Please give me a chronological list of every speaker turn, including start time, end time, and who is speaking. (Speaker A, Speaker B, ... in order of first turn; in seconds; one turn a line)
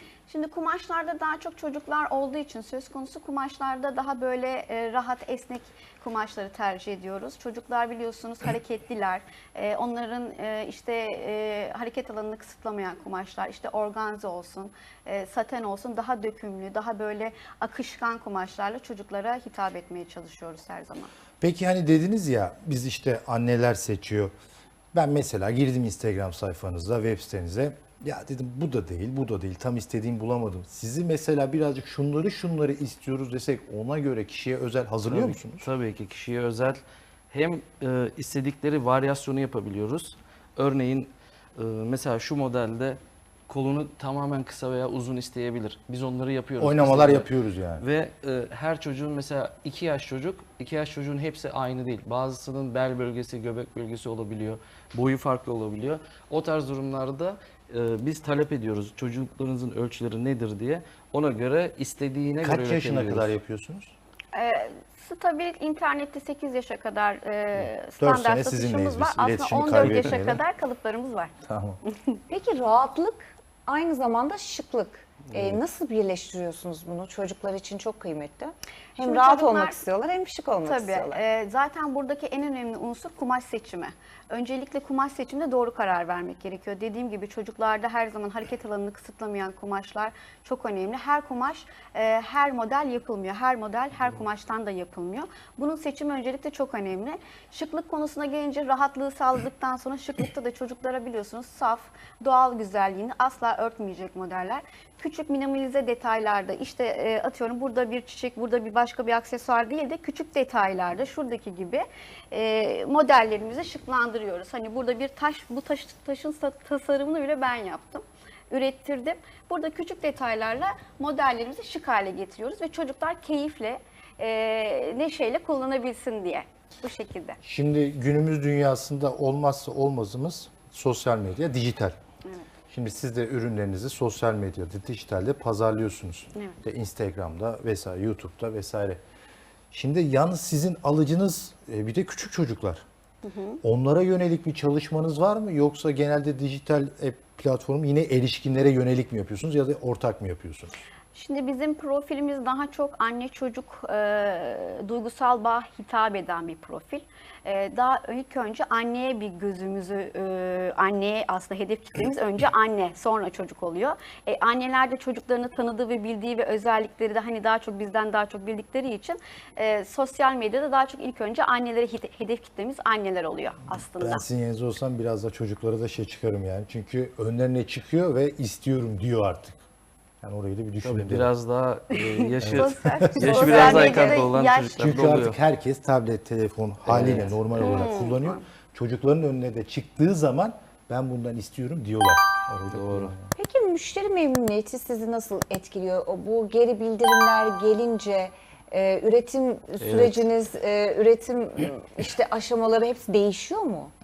Speaker A: 0.3-21.1
Speaker B: 21.4-24.3
Speaker B: 24.9-35.7
Speaker C: 35.1-63.3
Speaker B: 46.6-47.8
Speaker B: 62.4-63.9
Speaker A: 64.3-71.3
Speaker B: 68.0-70.4
Speaker B: 71.5-71.8
Speaker D: 72.3-81.2
Speaker C: 75.3-75.6
Speaker A: 79.0-79.8
Speaker A: 80.6-127.4
Speaker B: 127.4-132.0
Speaker B: 132.7-139.0
Speaker B: 139.7-142.8
Speaker A: 143.2-143.6
Speaker B: 143.6-150.8
Speaker A: 151.1-174.2
Speaker B: 173.8-179.6
Speaker B: 180.2-181.3
Speaker C: 180.8-185.4
Speaker A: 182.0-185.1
Speaker B: 182.4-184.1
Speaker B: 184.8-193.3
Speaker C: 186.9-187.7
Speaker A: 187.5-188.4
Speaker C: 192.7-193.1
Speaker D: 193.4-203.9
Speaker C: 199.8-200.3